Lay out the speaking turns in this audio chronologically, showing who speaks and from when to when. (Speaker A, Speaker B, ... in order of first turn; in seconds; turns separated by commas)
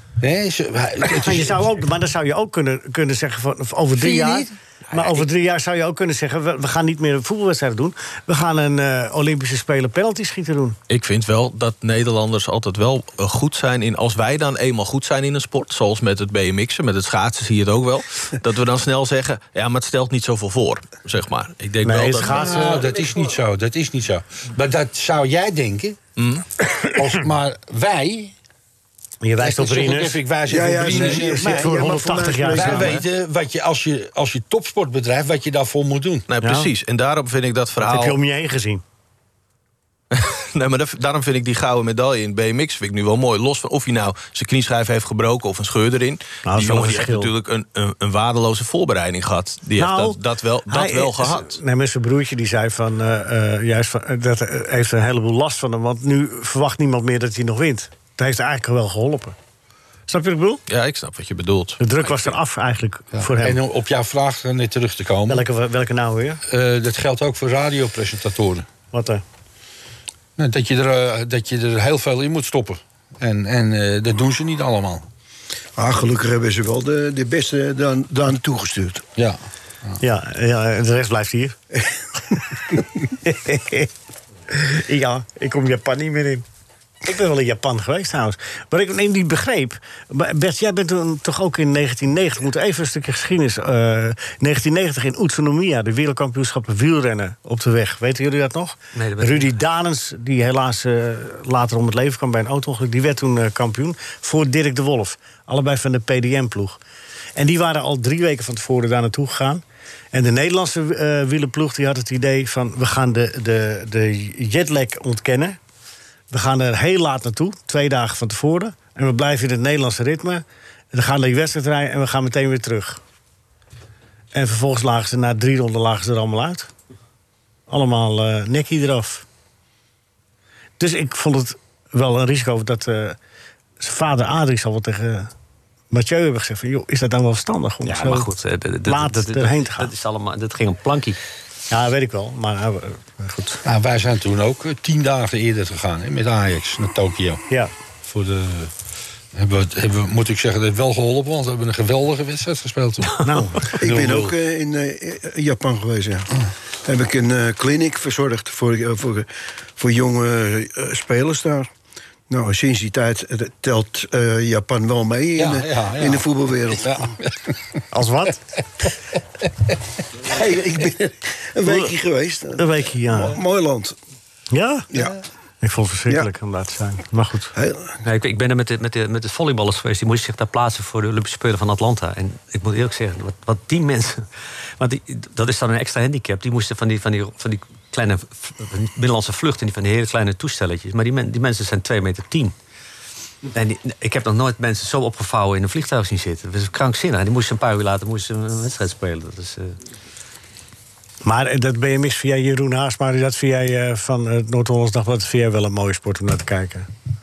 Speaker A: 0.2-1.6, Speaker B: 1.0-10.8, Speaker A: 4.0-5.2, Speaker C: 10.9-22.6, Speaker B: 21.8-23.0, Speaker A: 22.2-26.0, Speaker C: 26.2-26.4, Speaker A: 26.9-28.3, Speaker B: 29.2-30.2, Speaker A: 29.4-36.3, Speaker D: 30.5-33.0, Speaker B: 30.9-33.0, Speaker C: 36.3-38.2, Speaker B: 36.4-36.7, Speaker B: 37.8-38.8, Speaker C: 40.1-51.6, Speaker B: 46.5-47.3, Speaker B: 49.8-59.4, Speaker B: 60.1-60.6, Speaker C: 60.7-62.4, Speaker B: 61.8-63.6, Speaker A: 63.1-65.4, Speaker B: 65.3-66.4, Speaker A: 66.5-68.7, Speaker B: 68.9-69.2, Speaker A: 70.4-75.0, Speaker D: 75.8-79.0, Speaker A: 79.2-80.0, Speaker B: 80.0-81.6, Speaker B: 83.2-83.9, Speaker B: 84.5-86.5, Speaker B: 87.0-106.8, Speaker E: 98.9-99.6, Speaker B: 107.4-115.6, Speaker B: 116.3-123.0, Speaker B: 124.3-126.7, Speaker B: 127.7-129.2, Speaker B: 130.8-133.2, Speaker B: 133.8-135.3, Speaker B: 135.9-138.3, Speaker E: 137.8-141.2, Speaker B: 138.8-139.9, Speaker B: 141.7-143.6, Speaker A: 143.7-147.4, Speaker A: 148.0-148.7, Speaker A: 149.3-154.3, Speaker B: 153.2-153.8, Speaker D: 153.8-156.3, Speaker D: 156.8-161.7, Speaker D: 162.3-167.1, Speaker A: 165.4-167.5, Speaker B: 167.9-168.4, Speaker D: 170.2-174.0, Speaker B: 171.6-171.9, Speaker B: 172.6-173.4, Speaker B: 174.5-174.9, Speaker D: 174.9-175.2, Speaker B: 175.6-177.5, Speaker D: 177.6-178.0, Speaker E: 178.0-184.3, Speaker E: 184.8-192.6, Speaker E: 193.5-199.8, Speaker B: 201.2-206.9